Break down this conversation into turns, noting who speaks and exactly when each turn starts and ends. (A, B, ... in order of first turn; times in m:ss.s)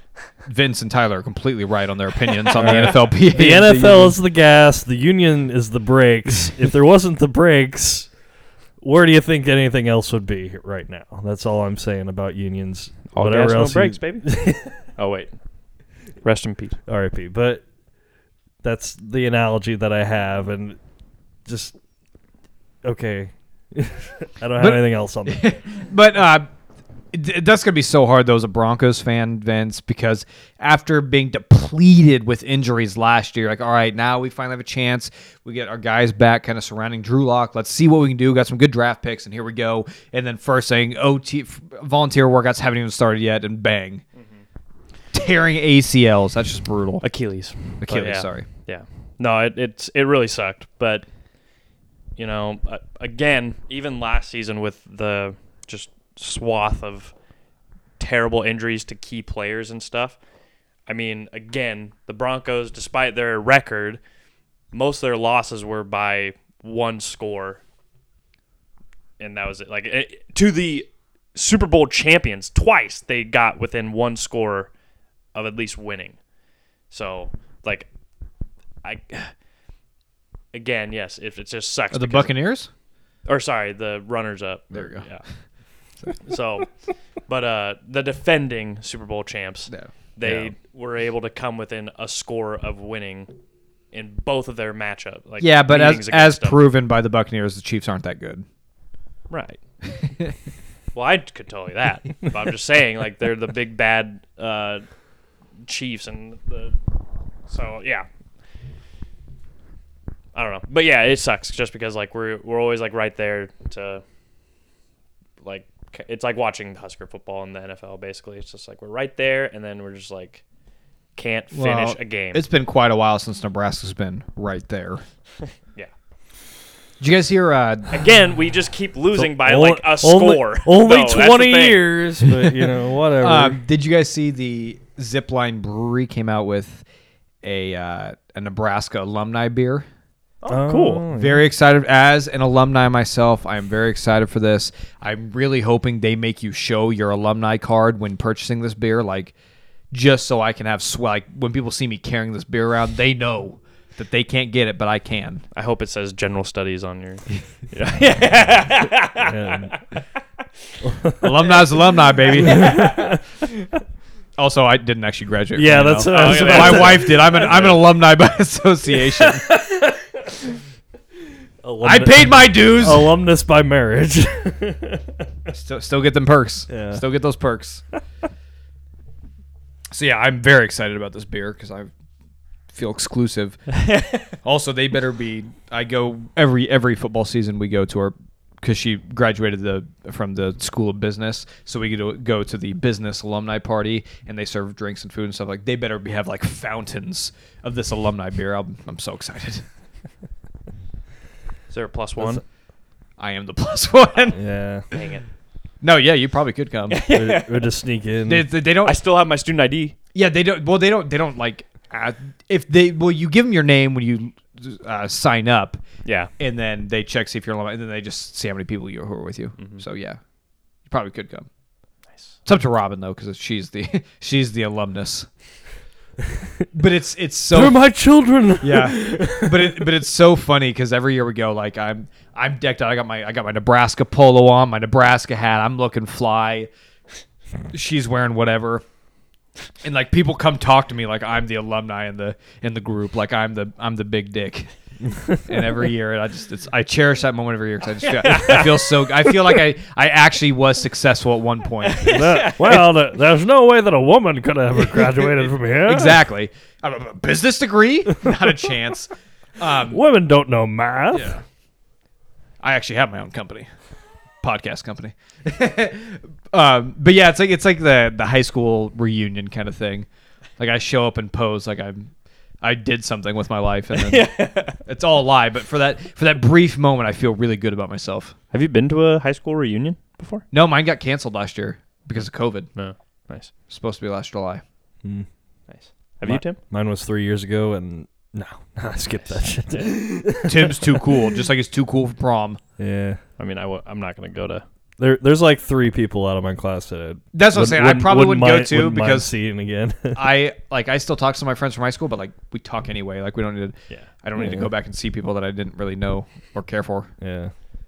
0:00.4-0:04.2 A
0:02.5-0:02.9 B
0:02.5-0:08.1 C
0:08.8-0:14.8 C
0:13.1-0:14.3 B
0:14.9-0:15.3 B
0:16.2-0:16.8 B
0:16.9-0:17.6 C
0:18.6-0:20.8 C
0:21.4-0:21.7 C
0:22.8-0:25.5 C
0:24.6-0:26.5 A
0:27.1-0:44.0 A
0:44.2-0:44.4 B
0:45.1-0:47.0 A
0:47.0-0:51.0 B
0:47.8-0:48.4 A
0:52.2-0:57.1 B
0:58.0-1:00.2 B
1:00.9-1:04.0 B
1:04.7-1:07.6 B
1:09.2-1:14.7 B
1:15.3-1:16.2 B
1:16.9-1:17.9 B
1:18.8-1:19.3 B
1:20.5-1:22.3 B
1:21.9-1:22.7 A
1:23.3-1:25.3 B
1:24.7-1:25.1 A
1:26.2-1:26.7 B
1:27.3-1:33.3 B
1:29.7-1:30.5 A
1:33.9-1:36.6 B
1:35.4-1:38.4 A
1:39.3-1:39.6 B
1:40.9-1:44.8 B
1:45.6-1:46.8 B
1:47.5-1:48.1 B
1:50.3-1:54.0 B
1:55.4-2:00.4 B
2:01.2-2:02.4 B
2:01.5-2:05.0 A
2:05.4-2:05.9 B
2:07.0-2:08.0 A
2:07.9-2:12.0 B
2:09.2-2:13.6 C
2:13.2-2:16.8 A
2:17.4-2:19.9 A
2:20.4-2:21.0 B
2:20.5-2:21.5 C
2:21.2-2:29.3 A
2:29.9-2:35.4 A
2:35.6-2:40.0 B
2:39.2-2:39.8 C
2:40.8-2:41.3 C
2:41.2-2:43.0 A
2:42.3-2:43.2 B
2:42.4-2:43.2 C
2:44.4-2:49.6 A
2:45.6-2:47.7 C
2:46.0-2:47.8 B
2:49.0-2:50.3 C
2:51.6-2:55.2 C
2:51.8-2:53.1 A
2:55.5-2:57.8 A
2:56.7-2:57.0 C
2:59.9-3:01.9 A
3:02.7-3:19.6 A
3:03.8-3:04.3 B
3:21.7-3:22.4 B
3:23.2-3:24.4 A
3:24.4-3:24.9 C
3:24.9-3:25.3 B
3:25.8-3:27.0 A
3:26.9-3:27.7 B
3:27.1-3:28.5 C
3:28.3-3:29.0 A
3:28.8-3:30.0 B
3:30.1-3:35.8 A
3:36.0-3:36.3 B
3:36.4-3:40.2 A
3:39.6-3:39.8 B
3:40.9-3:41.5 A
3:42.4-3:45.3 A
3:46.7-3:47.8 A
3:47.5-3:49.9 C
3:48.6-3:56.7 A
3:57.7-3:58.8 A
3:59.8-4:04.7 A
4:05.0-4:05.4 C
4:05.3-4:12.1 A
4:08.0-4:09.4 B
4:11.8-4:12.9 B
4:12.0-4:16.2 C
4:15.9-4:20.0 A
4:19.9-4:21.3 C
4:21.1-4:21.4 A
4:22.6-4:23.7 A
4:24.4-4:30.1 A
4:30.6-4:32.1 A
4:32.6-4:38.3 A
4:33.9-4:34.8 B
4:38.5-4:40.4 B
4:40.5-4:42.7 A
4:42.7-4:43.5 B
4:43.7-4:44.6 A
4:45.0-4:45.3 C
4:45.7-4:46.6 B
4:46.2-4:51.3 C
4:49.7-4:50.0 B
4:50.3-4:52.6 A
4:52.8-4:53.2 C
4:53.4-4:54.6 B
4:55.0-5:00.3 C
4:57.3-4:59.3 A
5:00.1-5:07.1 A
5:04.4-5:04.7 C
5:07.2-5:07.5 C